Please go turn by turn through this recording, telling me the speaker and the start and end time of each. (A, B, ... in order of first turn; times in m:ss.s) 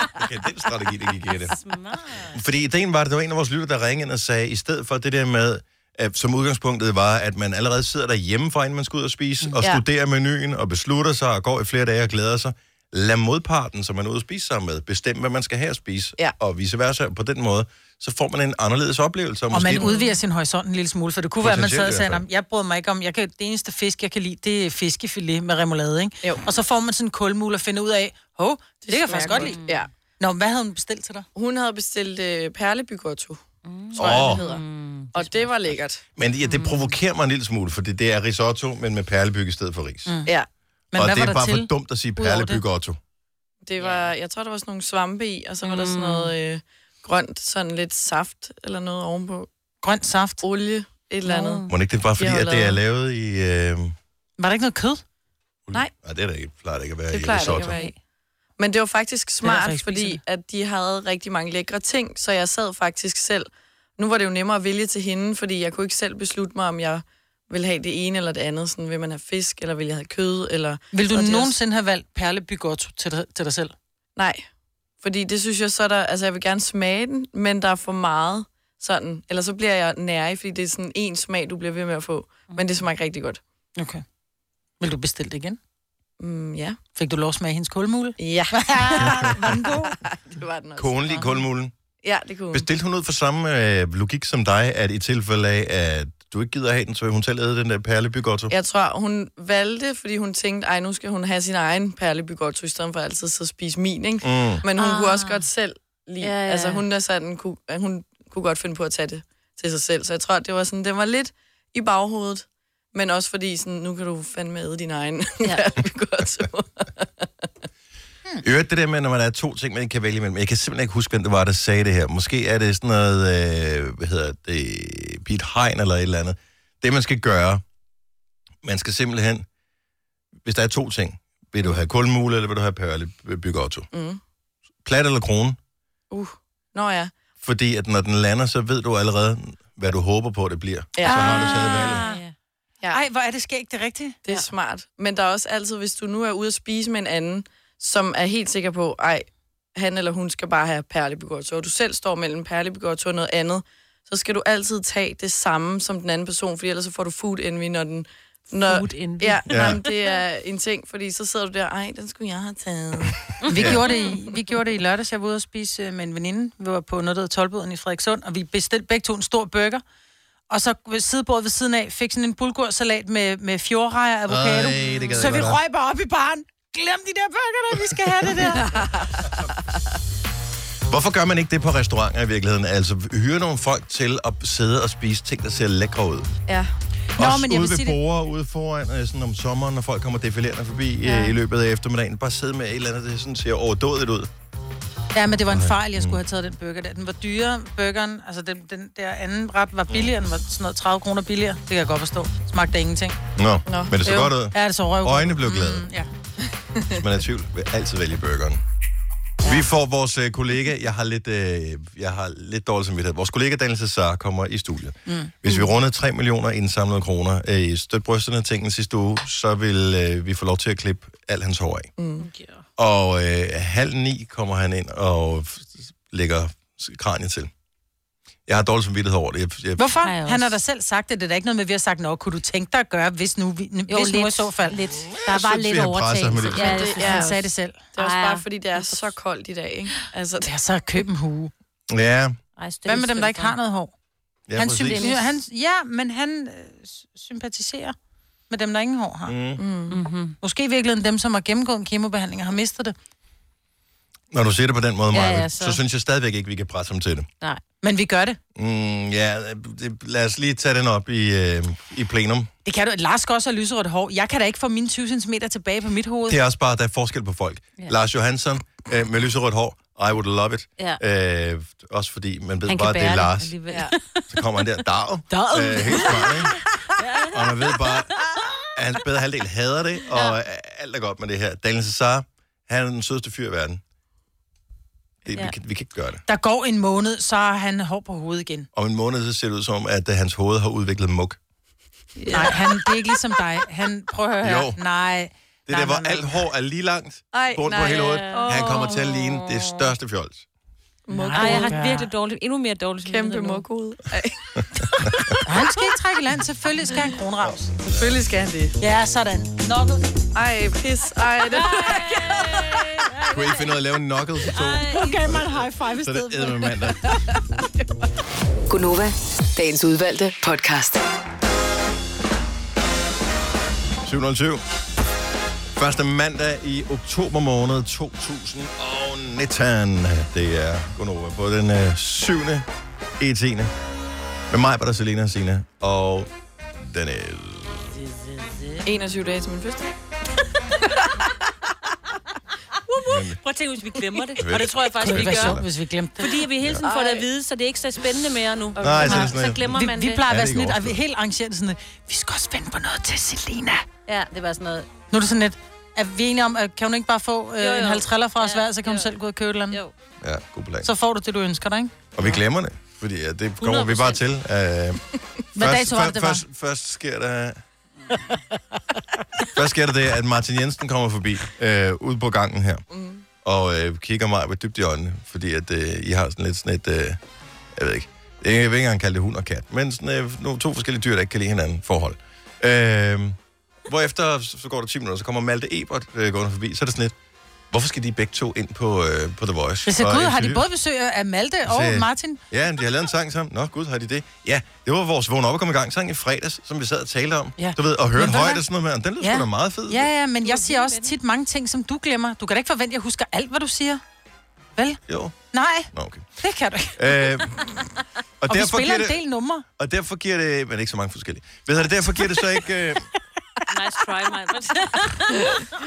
0:00.2-0:01.6 A
0:01.5-0:02.4 B
0:02.3-0:19.9 A
0:19.5-0:29.6 C
0:21.4-0:22.2 A
0:28.8-0:29.9 D
0:29.4-0:29.8 B
0:30.2-0:31.2 C
0:31.3-0:33.4 D
0:33.6-0:35.7 B
0:34.0-0:34.6 D
0:34.0-0:34.4 A
0:34.0-0:34.3 C
0:35.1-0:36.0 D
0:36.2-0:40.1 A
0:36.4-0:37.0 B
0:40.0-0:40.3 C
0:40.9-0:42.6 C
0:40.9-0:43.0 A
0:43.6-0:49.5 D
0:43.8-0:44.1 B
0:45.6-0:46.3 B
0:49.8-0:50.4 C
0:50.4-0:51.7 D
0:51.2-0:51.7 B
0:51.7-0:53.9 A
0:52.2-0:52.8 D
0:54.4-0:55.0 C
0:55.7-0:57.8 A
0:57.1-0:57.9 D
0:57.6-0:57.9 C
0:58.6-1:11.5 D
0:59.4-1:00.2 C
1:10.9-1:13.7 C
1:14.2-1:14.4 D
1:15.0-1:23.4 D
1:23.8-1:24.0 C
1:24.8-1:25.6 C
1:26.2-1:26.8 D
1:27.0-1:29.9 C
1:28.2-1:31.4 D
1:30.8-1:31.7 A
1:32.0-1:32.7 D
1:32.5-1:38.5 A
1:38.5-1:57.5 D
1:44.2-1:44.6 A
1:44.8-1:45.5 B
1:46.2-1:46.8 B
1:58.4-2:07.6 A
2:08.6-2:09.4 A
2:10.4-2:13.9 A
2:13.9-2:14.2 D
2:14.8-2:15.6 A
2:16.1-2:17.1 D
2:17.4-2:22.0 A
2:21.0-2:21.9 D
2:21.0-2:22.2 C
2:21.5-2:22.3 B
2:22.9-2:24.2 C
2:24.2-2:43.9 D
2:38.6-2:40.2 B
2:39.5-2:39.8 A
2:43.4-2:44.1 B
2:43.5-2:49.8 C
2:43.5-2:43.8 A
2:50.5-2:58.8 C
2:54.3-2:55.6 A
2:58.6-2:59.5 D
3:00.9-3:06.3 A
3:07.2-3:08.0 C
3:07.2-3:14.3 A
3:15.1-3:23.2 C
3:15.5-3:16.2 A
3:23.4-3:25.9 A
3:23.7-3:24.0 D
3:24.0-3:26.1 C
3:27.0-3:28.6 A
3:29.4-3:41.9 A
3:35.1-3:35.3 C
3:42.0-3:42.3 D
3:42.2-3:42.6 B
3:42.8-3:47.5 A
3:48.5-3:49.9 A
3:49.8-3:54.8 C
3:50.0-3:50.5 B
3:53.9-3:57.4 B
3:55.0-3:56.9 A
3:56.6-3:57.8 C
3:56.6-3:57.4 D
3:57.9-4:00.5 D
3:58.0-3:59.0 B
4:00.4-4:01.5 C
4:01.9-4:02.4 A
4:02.6-4:03.5 B
4:02.8-4:03.9 C
4:04.5-4:05.1 A
4:04.6-4:07.9 C
4:04.9-4:05.2 B
4:08.5-4:09.3 C
4:09.2-4:09.6 A
4:09.6-4:10.0 D
4:09.9-4:10.4 B
4:10.4-4:12.9 C
4:14.3-4:17.3 A
4:15.1-4:15.8 B
4:17.8-4:18.4 C
4:18.6-4:22.5 A
4:22.6-4:26.4 C
4:26.3-4:33.6 A
4:32.7-4:34.2 B
4:34.3-4:36.5 A
4:35.3-4:36.2 C
4:35.8-4:38.0 B
4:37.3-4:38.1 A
4:38.7-4:43.8 A
4:40.1-4:40.4 B
4:45.2-4:46.2 A
4:46.3-4:48.7 C
4:48.7-4:51.4 A
4:52.2-4:52.5 B
4:52.3-4:56.5 C
4:54.4-4:54.8 A
4:55.7-5:00.4 A
4:57.3-4:59.1 D
4:58.0-4:59.3 B
5:01.1-5:01.8 D
5:01.1-5:02.1 C
5:01.3-5:03.6 B
5:03.0-5:05.0 D
5:04.6-5:05.3 A
5:05.4-5:07.7 C
5:07.4-5:08.1 A
5:07.8-5:08.8 D
5:08.8-5:09.8 C
5:10.3-5:12.8 D
5:11.5-5:13.8 B
5:13.3-5:17.1 A
5:14.4-5:15.2 B
5:14.9-5:16.8 C
5:18.7-5:21.0 E
5:24.0-5:24.6 A
5:25.8-5:32.6 A
5:33.2-5:33.7 A
5:34.5-5:37.9 A
5:38.8-5:39.9 D
5:40.8-5:41.1 D
5:42.9-5:45.6 B
5:43.0-5:43.4 A
5:44.4-5:45.7 A
5:45.0-5:46.4 C
5:46.2-5:50.2 B
5:46.8-5:47.2 D
5:48.8-5:49.3 D
5:48.8-5:51.0 A
5:49.0-5:53.8 C
5:54.1-5:54.9 B
5:55.1-5:59.8 C
5:57.6-5:59.1 B
6:00.2-6:00.9 A
6:00.8-6:01.9 C
6:02.1-6:05.0 A
6:03.6-6:04.2 B
6:05.5-6:06.4 C
6:05.5-6:07.6 A
6:09.5-6:12.8 A
6:12.9-6:13.2 D
6:13.4-6:17.2 A
6:17.7-6:27.1 A
6:27.7-6:30.6 A
6:29.8-6:32.4 C
6:31.6-6:40.1 A
6:37.6-6:38.6 C
6:39.2-6:44.0 C
6:40.4-6:41.1 B
6:45.1-6:45.4 A
6:45.5-6:47.4 C
6:45.9-6:46.3 A
6:47.0-6:47.8 A
6:48.4-6:49.2 A
6:48.5-6:49.6 C
6:49.8-6:53.0 A
6:53.7-6:55.7 B